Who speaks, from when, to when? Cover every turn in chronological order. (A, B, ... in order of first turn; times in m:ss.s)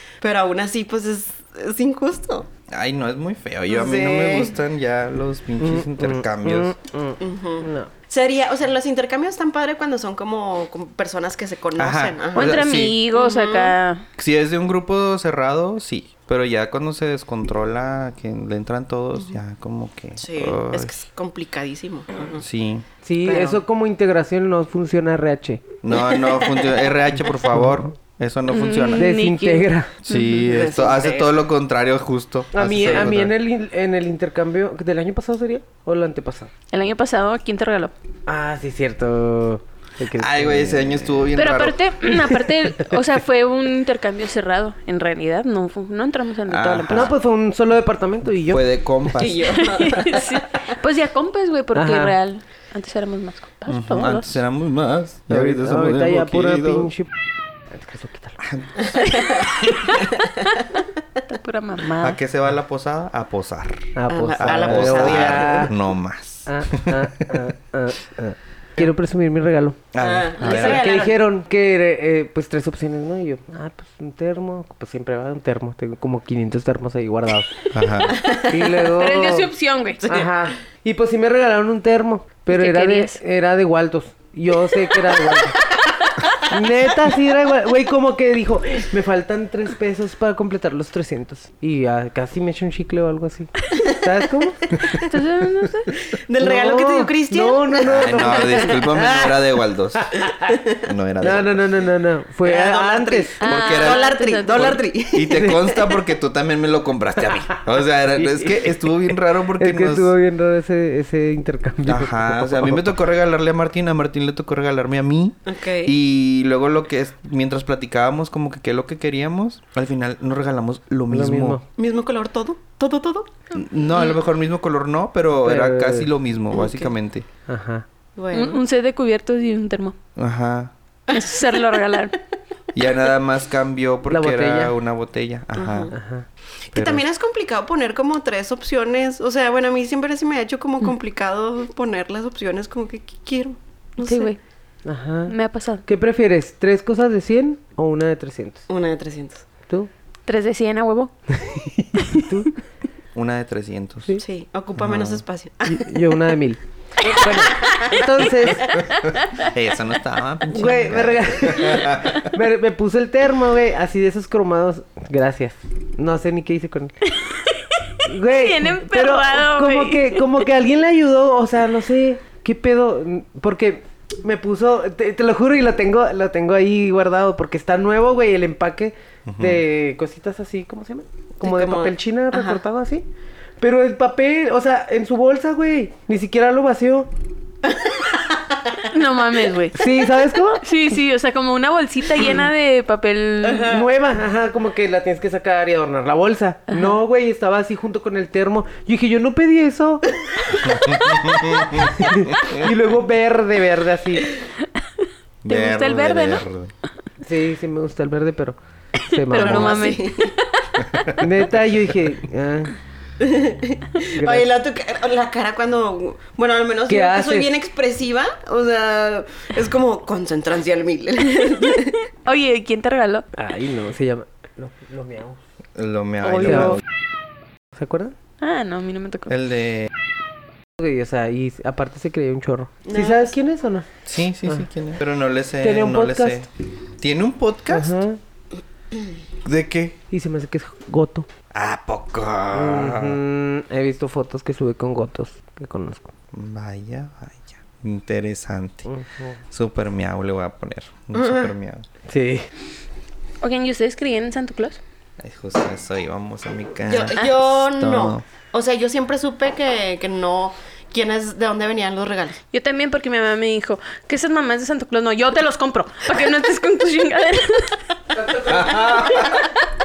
0:00.2-0:02.5 A
0:02.7-0:06.7 B
0:03.7-0:04.5 A
0:05.6-0:07.9 C
0:07.2-0:13.7 A
0:11.8-0:13.0 B
0:12.3-0:14.0 D
0:14.2-0:20.9 B
0:20.2-0:22.4 A
0:22.4-0:22.8 B
0:23.0-0:25.6 C
0:23.2-0:23.6 A
0:25.8-0:29.1 B
0:25.9-0:26.9 A
0:28.5-0:30.6 D
0:29.0-0:29.9 C
0:30.0-0:33.3 B
0:30.5-0:31.3 A
0:32.5-0:36.5 C
0:36.7-0:37.9 D
0:38.3-0:41.2 C
0:40.1-0:41.8 B
0:41.3-0:47.1 D
0:46.5-0:47.1 B
0:46.9-0:49.2 C
0:48.5-0:49.6 B
0:49.1-0:50.4 A
0:49.6-0:54.4 D
0:51.7-0:52.1 C
0:53.7-0:56.9 B
0:55.3-0:57.1 C
0:57.7-0:58.4 C
0:58.4-0:58.9 B
0:59.0-1:00.4 A
1:01.3-1:02.2 D
1:02.0-1:07.5 B
1:03.9-1:05.7 C
1:04.1-1:05.7 A
1:06.5-1:09.8 C
1:09.9-1:10.9 B
1:10.0-1:11.2 A
1:10.4-1:17.6 C
1:17.7-1:18.2 B
1:18.1-1:18.7 A
1:18.5-1:19.5 C
1:18.9-1:20.0 D
1:20.0-1:20.3 A
1:20.0-1:25.6 C
1:22.5-1:23.2 D
1:26.5-1:34.7 C
1:34.9-1:35.9 D
1:36.2-1:38.8 A
1:36.4-1:39.4 C
1:37.8-1:40.1 B
1:40.0-1:40.6 C
1:40.8-1:41.6 B
1:41.2-1:43.4 C
1:42.4-1:46.0 A
1:43.4-1:44.8 D
1:43.4-1:50.1 B
1:45.3-1:45.6 C
1:48.2-1:48.8 C
1:49.6-1:53.0 C
1:51.8-2:01.6 B
1:55.4-1:55.9 A
2:01.1-2:01.6 C
2:01.8-2:03.3 A
2:03.5-2:07.2 B
2:05.3-2:06.1 C
2:06.5-2:06.9 A
2:07.5-2:07.8 C
2:08.2-2:08.6 A
2:08.3-2:09.9 D
2:10.2-2:10.7 B
2:11.1-2:12.2 D
2:12.7-2:15.9 B
2:14.1-2:14.7 C
2:15.6-2:15.9 A
2:15.9-2:16.2 C
2:16.7-2:24.3 A
2:16.7-2:17.0 B
2:24.0-2:24.4 D
2:24.8-2:25.3 C
2:25.3-2:25.8 D
2:25.8-2:28.6 C
2:28.7-2:29.4 A
2:30.2-2:31.1 D
2:31.4-2:32.5 C
2:33.1-2:34.2 B
2:34.2-2:35.9 A
2:34.8-2:35.2 B
2:35.6-2:38.8 C
2:37.6-2:38.0 A
2:39.0-2:39.3 D
2:39.3-2:42.3 B
2:40.5-2:46.9 C
2:47.1-2:50.4 D
2:48.0-3:03.0 C
2:59.2-2:59.6 B
3:01.4-3:02.6 A
3:03.6-3:07.1 C
3:07.7-3:08.8 A
3:08.8-3:09.9 D
3:09.7-3:10.6 C
3:10.6-3:13.8 D
3:13.4-3:13.8 A
3:13.7-3:20.0 C
3:20.6-3:22.7 B
3:21.7-3:24.3 C
3:25.4-3:26.7 B
3:25.5-3:26.4 D
3:27.2-3:30.0 C
3:29.1-3:30.6 D
3:29.3-3:30.3 A
3:30.8-3:31.1 B
3:31.2-3:32.7 C
3:33.2-3:42.0 A
3:34.1-3:34.4 C
3:36.9-3:37.5 C
3:42.2-3:43.2 D
3:43.4-3:45.4 C
3:45.8-3:46.8 B
3:46.3-3:46.8 D
3:46.4-3:46.8 C
3:47.8-3:48.2 C
3:48.4-3:49.3 D
3:49.3-3:49.9 B
3:50.8-3:53.9 C
3:52.9-3:53.3 A
3:54.0-3:56.5 B
3:55.6-3:56.4 C
3:57.0-3:57.9 B
3:57.7-3:58.2 C
3:59.4-4:00.0 B
4:00.1-4:01.3 C
4:01.5-4:03.2 B
4:02.5-4:06.1 C
4:06.3-4:08.9 B
4:08.8-4:09.4 C
4:09.5-4:11.8 B
4:11.1-4:11.5 A
4:12.1-4:12.4 C
4:13.4-4:14.8 D
4:15.2-4:18.2 B
4:16.9-4:22.4 A
4:22.5-4:29.5 D
4:28.4-4:29.5 B